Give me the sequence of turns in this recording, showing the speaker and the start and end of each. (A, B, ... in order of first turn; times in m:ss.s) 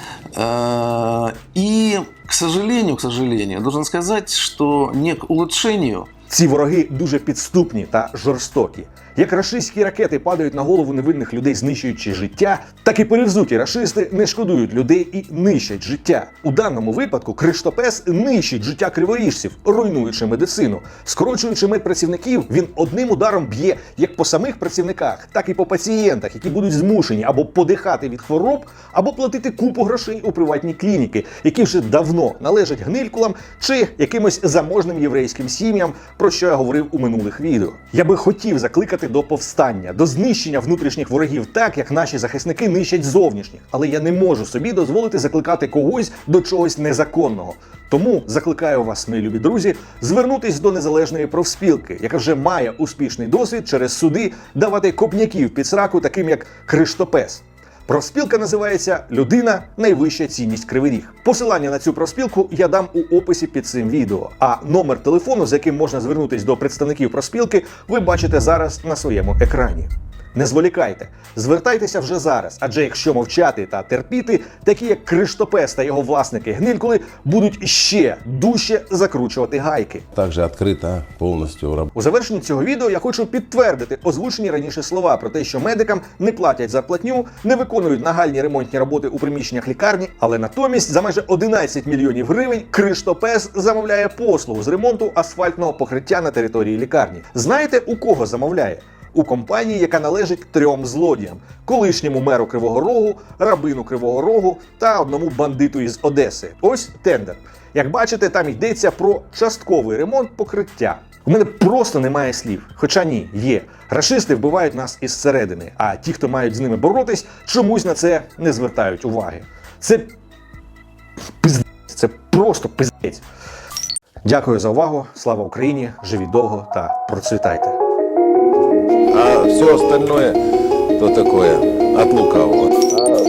0:00.3-0:06.1 A
0:06.3-1:20.0 B
1:20.1-1:21.9 C
1:20.2-1:21.1 A
1:21.9-2:00.1 B
2:01.4-2:03.2 B
2:04.2-2:07.8 B
2:09.1-2:10.3 A
2:09.2-2:10.4 C
2:11.0-2:12.7 A
2:11.4-2:12.7 C